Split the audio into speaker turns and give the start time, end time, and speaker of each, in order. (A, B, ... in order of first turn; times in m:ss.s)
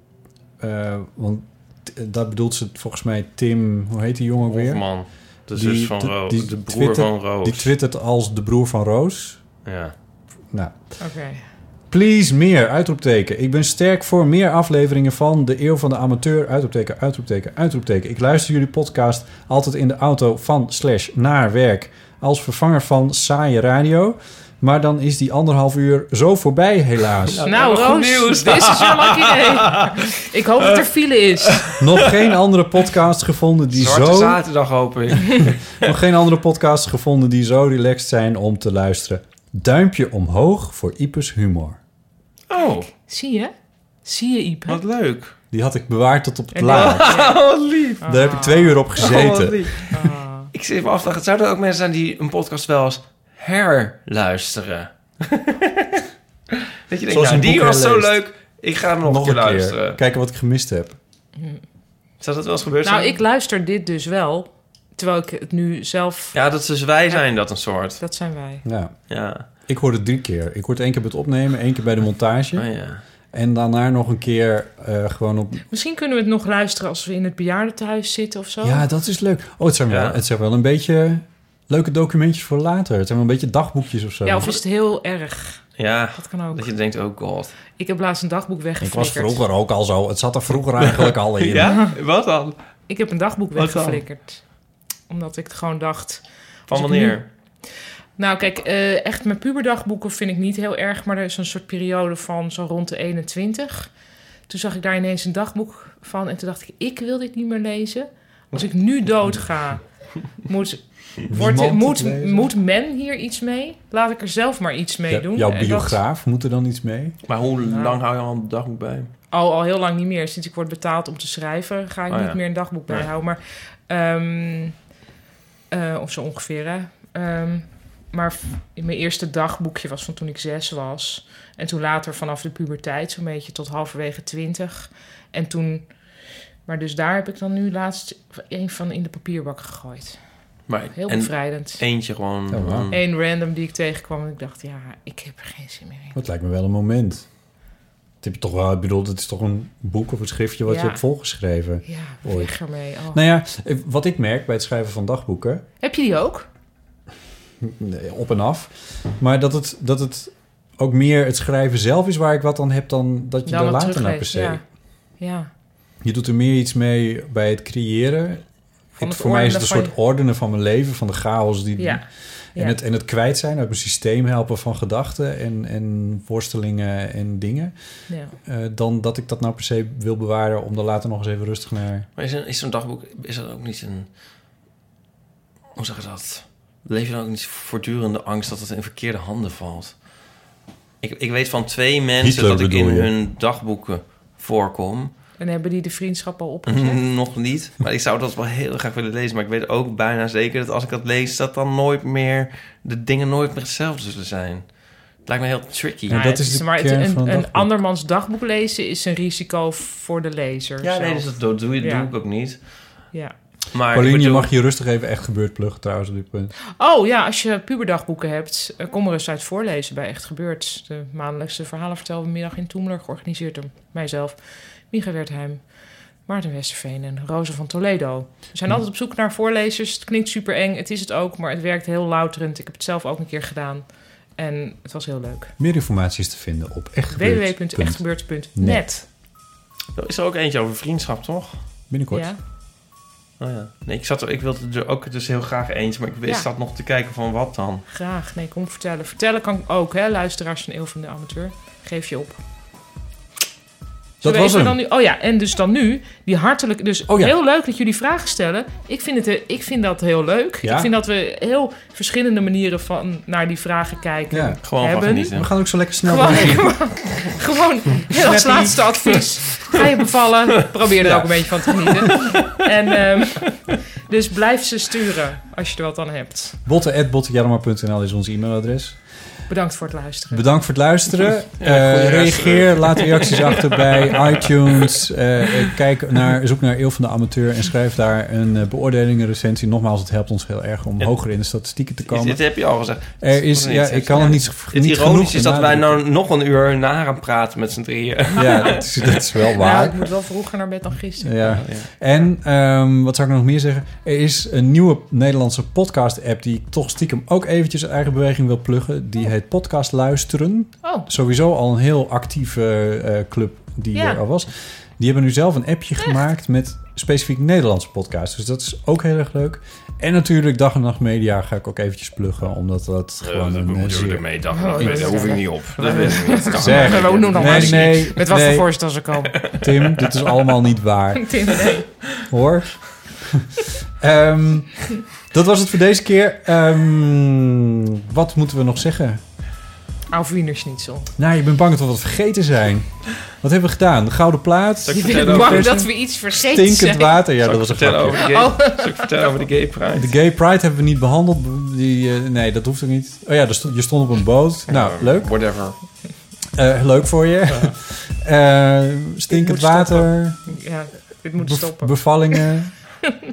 0:00.6-0:09.4 A
0:04.4-0:07.7 B
0:09.6-0:09.9 B
0:10.5-0:11.0 A
0:11.0-0:11.4 C
0:11.9-0:27.4 A
0:27.3-0:30.0 B
0:27.4-0:31.7 C
0:31.4-0:32.3 B
0:31.8-0:34.4 A
0:33.7-0:35.9 B
0:35.1-0:41.8 A
0:42.5-0:42.9 B
0:42.9-0:44.8 C
0:44.7-0:45.3 B
0:45.5-0:47.2 A
0:46.5-0:47.4 C
0:46.6-0:48.0 B
0:48.0-0:48.8 C
0:48.0-0:49.7 A
0:49.0-0:56.0 B
0:49.9-0:50.5 C
0:56.9-1:00.0 B
0:57.1-0:58.2 A
0:59.0-1:01.0 A
1:01.4-1:01.6 C
1:02.2-1:03.2 B
1:02.8-1:06.4 C
1:06.3-1:08.0 B
1:08.0-1:08.6 C
1:08.6-1:12.7 A
1:09.1-1:09.4 B
1:12.5-1:13.0 B
1:13.3-1:15.6 A
1:15.7-1:18.8 C
1:18.6-1:24.5 A
1:19.9-1:20.2 B
1:24.2-1:25.6 C
1:25.8-1:27.6 B
1:26.2-1:26.7 C
1:27.8-1:29.4 C
1:28.8-1:31.7 A
1:30.8-1:32.6 B
1:31.6-1:31.9 C
1:32.9-1:34.4 C
1:33.6-1:34.0 B
1:35.1-1:37.2 C
1:36.7-1:37.2 B
1:38.2-1:43.9 C
1:44.5-1:49.8 C
1:50.4-1:56.0 C
1:51.3-1:52.5 A
1:55.1-1:57.2 A
1:57.2-1:59.1 B
1:57.6-1:58.0 C
1:59.3-2:04.8 C
2:02.1-2:03.1 B
2:05.7-2:16.0 C
2:16.6-2:20.2 C
2:20.7-2:23.0 B
2:20.9-2:21.8 C
2:22.5-2:22.9 A
2:22.9-2:26.2 C
2:26.1-2:27.2 A
2:28.2-2:32.5 A
2:30.6-2:31.0 C
2:31.8-2:33.2 C
2:33.1-2:35.6 A
2:35.8-2:36.5 C
2:37.6-2:44.6 A
2:43.4-2:44.6 C
2:45.2-2:45.5 C
2:46.0-2:48.4 A
2:49.0-2:57.7 A
2:49.0-2:49.9 C
2:51.8-2:52.0 C
2:58.1-2:58.3 C
2:58.4-3:02.1 A
3:02.2-3:04.1 B
3:05.7-3:10.0 B
3:11.0-3:15.1 B
3:12.2-3:13.1 A
3:15.4-3:17.0 C
3:16.7-3:26.2 B
3:26.1-3:27.7 A
3:26.1-3:32.1 C
3:30.8-3:32.7 B
3:33.7-3:34.5 B
3:33.9-3:36.5 A
3:36.8-3:44.4 C
3:44.9-3:45.6 C
3:46.2-3:55.5 C
3:55.6-3:58.9 A
3:57.1-3:59.0 C
4:00.0-4:01.6 B
4:01.9-4:02.3 A
4:02.1-4:02.4 C
4:03.4-4:07.8 B
4:07.9-4:12.4 C
4:14.2-4:14.8 A
4:14.2-4:25.3 C
4:17.1-4:17.3 A
4:20.6-4:20.9 A
4:24.3-4:24.6 A
4:24.6-4:25.5 B
4:25.3-4:26.7 A
4:26.0-4:36.6 C
4:28.2-4:28.9 A
4:31.0-4:31.4 A
4:32.2-4:32.5 B
4:36.6-4:39.0 A
4:39.5-4:40.5 C
4:40.3-4:52.5 A
4:41.6-4:45.0 B
4:52.0-4:59.2 B
4:53.2-4:56.0 A
4:58.4-5:00.1 A
4:58.5-4:58.8 C
4:59.5-5:01.6 C
5:01.2-5:25.6 A
5:01.6-5:01.9 B
5:13.9-5:14.2 C
5:23.2-5:28.1 B
5:24.5-5:29.5 C
5:26.4-5:28.9 A
5:29.4-5:30.3 B
5:29.5-5:31.5 A
5:31.1-5:31.9 C
5:32.2-5:39.2 A
5:40.1-5:41.1 C
5:41.2-5:48.3 A
5:44.8-5:45.8 B
5:44.9-5:47.3 C
5:47.4-5:50.1 B
5:48.2-5:49.4 C
5:49.9-5:55.3 A
5:54.7-5:55.8 B
5:56.5-6:00.6 A
5:59.3-6:02.4 C
6:01.4-6:03.0 A